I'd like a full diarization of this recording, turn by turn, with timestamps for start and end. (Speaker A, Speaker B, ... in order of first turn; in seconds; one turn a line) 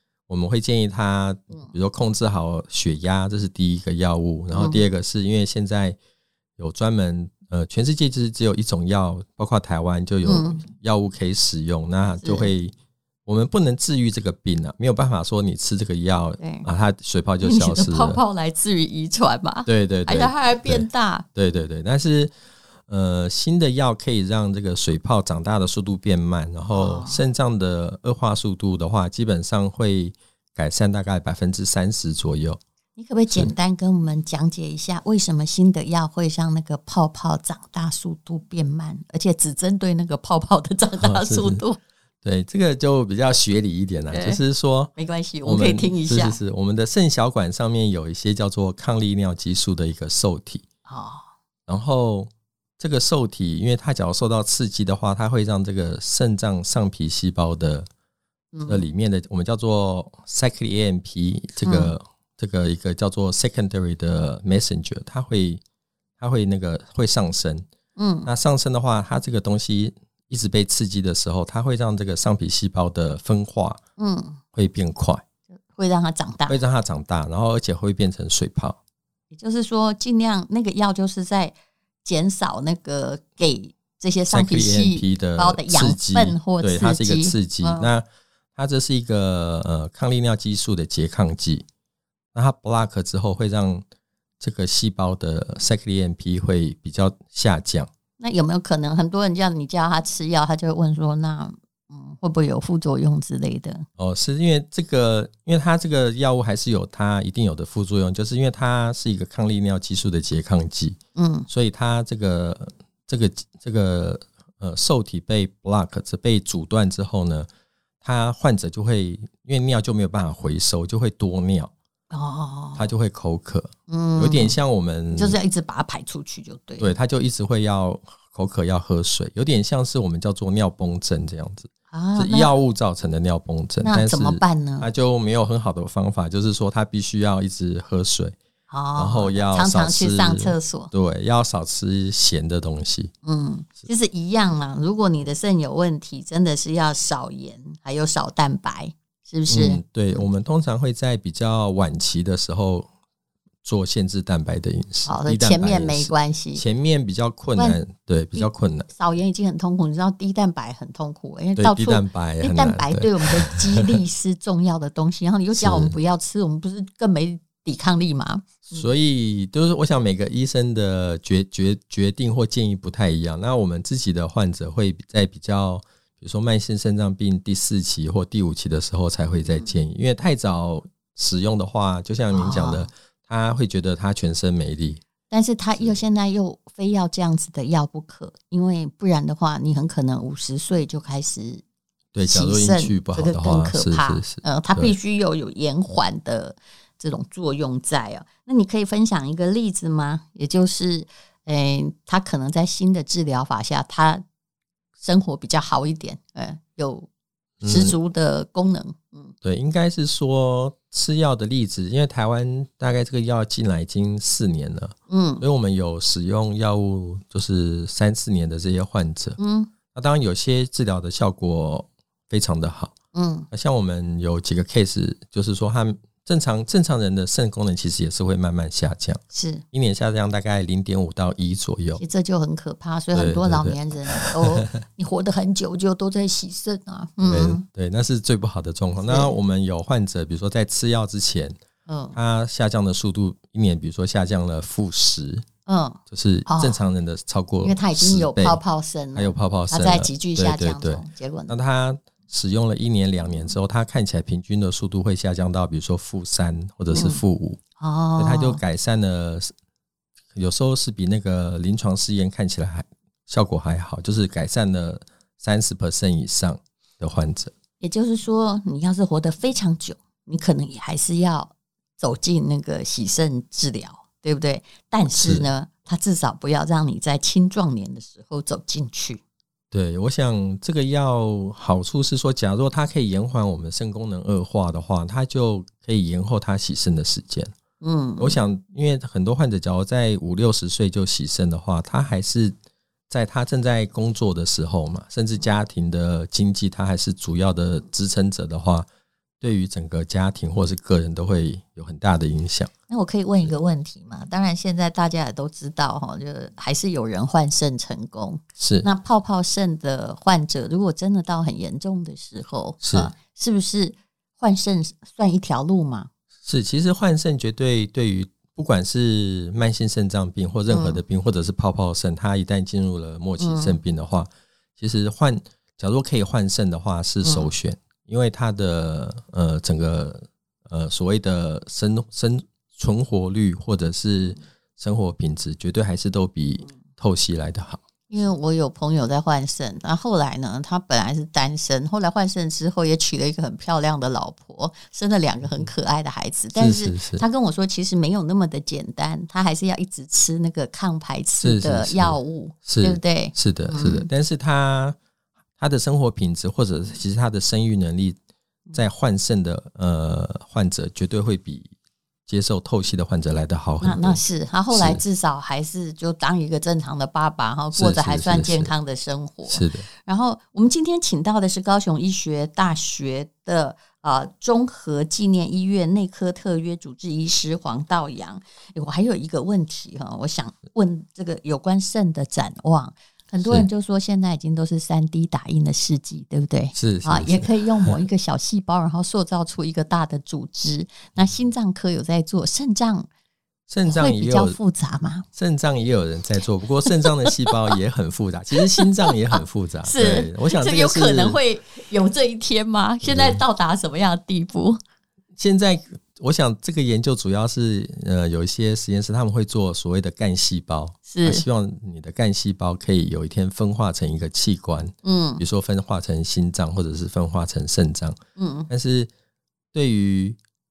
Speaker A: 0.3-6.0
Speaker B: 4.5-4.9
Speaker A: 6.6-12.7
Speaker B: 10.2-10.6
Speaker B: 12.2-12.5
Speaker A: 13.3-18.2
Speaker B: 16.4-16.7
Speaker B: 17.4-21.3
Speaker A: 19.7-22.3
Speaker A: 22.9-32.6
Speaker B: 26.7-27.2
Speaker B: 33.0-41.8
Speaker A: 33.3-33.5
Speaker A: 41.0-41.6
Speaker A: 42.2-44.9
Speaker B: 44.1-44.4
Speaker B: 45.0-46.4
Speaker A: 45.4-50.6
Speaker B: 50.9-51.3
Speaker A: 51.7-57.9
Speaker B: 58.5-58.9
Speaker A: 58.7-65.6
Speaker B: 61.6-61.9
Speaker A: 66.2-67.7
Speaker B: 68.0-68.3
Speaker A: 68.3-73.8
Speaker B: 74.0-74.4
Speaker A: 74.5-75.2
Speaker B: 75.7-76.6
Speaker A: 76.5-78.8
Speaker B: 79.3-87.9
Speaker A: 84.3-91.7
Speaker A: 92.3-93.8
Speaker A: 94.4-97.9
Speaker B: 98.2-103.9
Speaker A: 104.0-111.0
Speaker B: 111.2-111.5
Speaker A: 111.5-117.5
Speaker A: 118.0-121.7
Speaker B: 122.1-122.9
Speaker A: 122.8-125.4
Speaker B: 123.9-124.6
Speaker B: 125.1-126.9
Speaker A: 126.8-138.4
Speaker B: 131.9-132.5
Speaker B: 133.8-134.9
Speaker B: 138.7-140.9
Speaker A: 139.0-143.1
Speaker B: 143.2-150.3
Speaker A: 149.5-152.9
Speaker A: 153.6-158.9
Speaker B: 155.1-156.6
Speaker B: 157.6-157.8
Speaker B: 158.3-168.9
Speaker A: 161.6-163.9
Speaker A: 165.6-166.0
Speaker A: 168.7-185.0
Speaker B: 179.4-179.8
Speaker B: 182.3-182.9
Speaker B: 185.3-191.6
Speaker A: 192.1-194.9
Speaker B: 192.2-204.2
Speaker B: 205.0-207.1
Speaker A: 207.6-208.0
Speaker B: 207.6-209.3
Speaker A: 209.4-219.4
Speaker B: 215.1-215.4
Speaker B: 219.4-219.7
Speaker A: 219.9-222.9
Speaker B: 223.1-223.5
Speaker A: 223.5-229.2
Speaker B: 229.3-229.6
Speaker A: 229.7-232.0
Speaker B: 232.0-237.6
Speaker A: 233.2-234.7
Speaker A: 237.2-241.6
Speaker B: 239.0-239.3
Speaker B: 241.9-242.2
Speaker A: 242.1-245.4
Speaker B: 245.7-246.8
Speaker A: 246.1-248.6
Speaker B: 247.6-251.5
Speaker A: 249.2-257.6
Speaker B: 256.9-257.2
Speaker B: 257.8-258.6
Speaker A: 258.2-259.5
Speaker A: 260.3-267.5
Speaker B: 267.8-279.2
Speaker A: 275.1-275.5
Speaker A: 279.7-287.5
Speaker B: 287.8-288.4
Speaker A: 288.2-292.6
Speaker A: 293.1-298.9
Speaker A: 299.4-302.7
Speaker B: 302.9-316.1
Speaker A: 308.6-308.9
Speaker A: 312.8-313.1
Speaker A: 316.4-337.8
Speaker B: 320.7-321.0
Speaker B: 323.4-323.8
Speaker B: 327.2-327.5
Speaker B: 338.1-354.1
Speaker A: 346.6-347.2
Speaker A: 351.4-355.0
Speaker A: 355.6-358.2
Speaker A: 358.7-361.7
Speaker A: 362.3-364.2
Speaker B: 363.8-393.1
Speaker A: 364.7-365.0
Speaker A: 367.7-368.7
Speaker A: 369.5-369.9
Speaker A: 383.4-383.7
Speaker A: 386.7-388.0
Speaker A: 393.7-394.6
Speaker B: 393.9-395.3
Speaker A: 395.4-401.4
Speaker B: 396.9-397.4
Speaker B: 398.6-404.8
Speaker A: 403.0-403.4
Speaker A: 405.4-418.2
Speaker B: 411.1-411.5
Speaker B: 415.0-415.4
Speaker B: 418.4-418.7
Speaker A: 418.7-419.1
Speaker A: 419.7-420.4